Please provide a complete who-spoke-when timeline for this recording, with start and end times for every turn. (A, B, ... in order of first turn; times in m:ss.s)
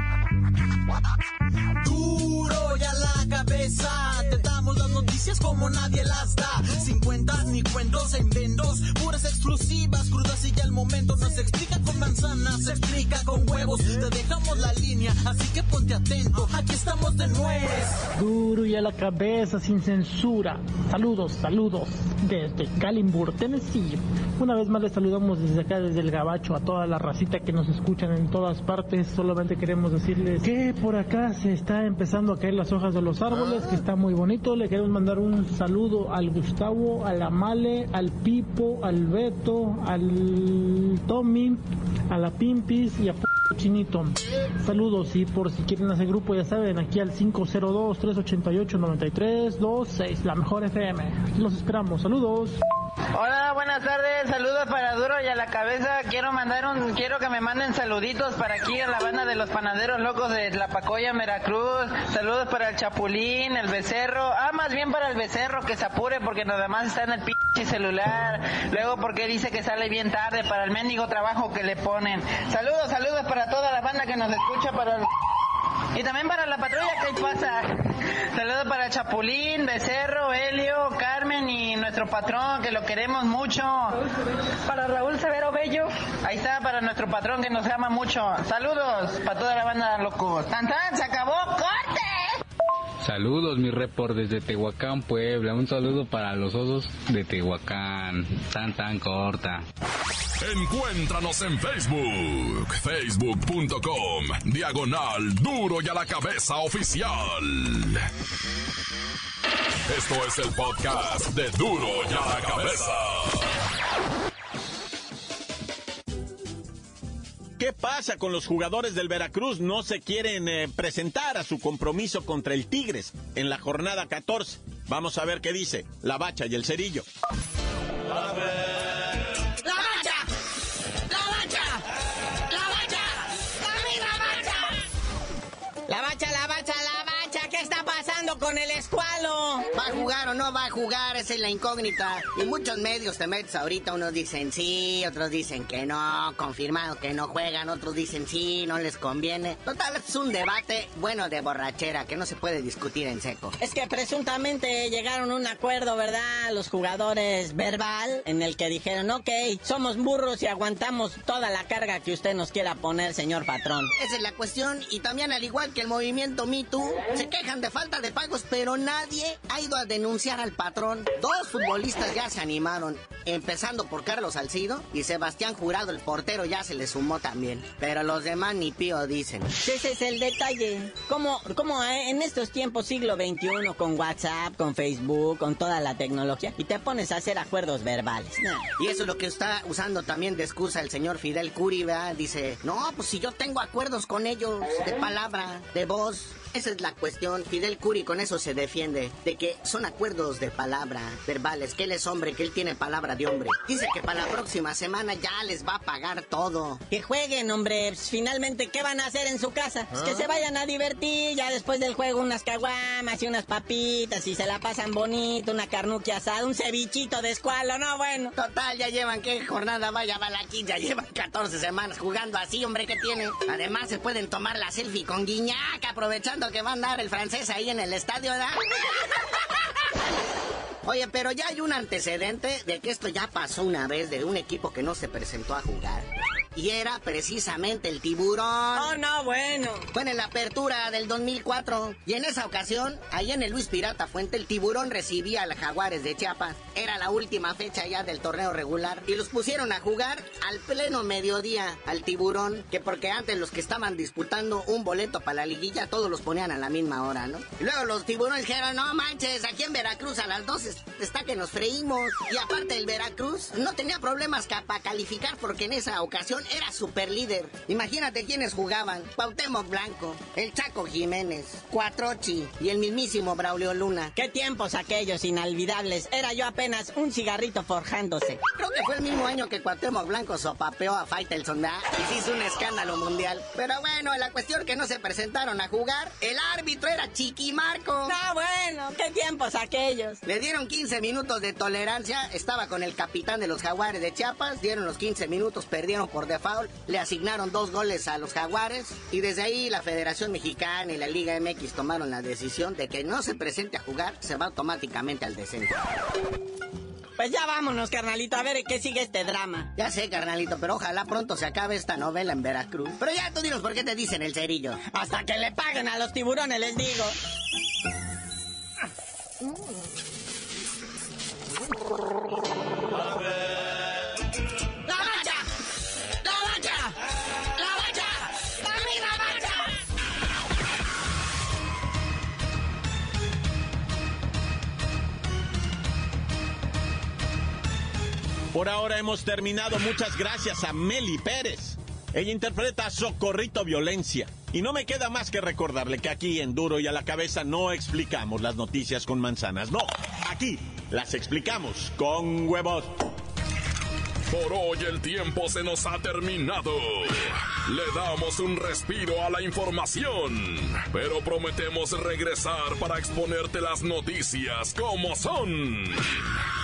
0:01.8-0:18.0 A
0:18.2-0:52.6 B
0:53.1-1:15.1 C
1:15.9-1:32.4 C
1:33.0-1:39.6 D
1:40.4-1:48.0 E
1:49.9-1:53.5 E
1:57.6-2:07.0 F
2:09.6-2:10.3 G
2:11.1-2:11.9 G
2:12.5-2:14.7 G
2:15.9-2:19.7 G
2:19.7-2:33.5 H
2:33.6-2:43.9 G
2:44.0-2:59.5 H
2:59.6-3:08.7 G
3:08.8-3:26.8 H
3:26.9-3:38.3 G
3:38.4-3:48.6 H
3:50.8-3:58.9 H
3:58.7-3:59.9 G
3:59.9-4:34.1 H
4:34.2-4:38.4 G
4:38.5-4:48.1 H
4:48.0-4:50.2 G
4:50.2-5:05.8 H
5:07.2-5:09.7 G
5:09.8-5:14.8 H
5:14.8-5:17.2 G
5:24.8-5:25.5 G
5:26.2-5:27.0 G
5:27.6-5:29.6 G
5:38.5-5:52.9 F
5:54.3-6:06.4 E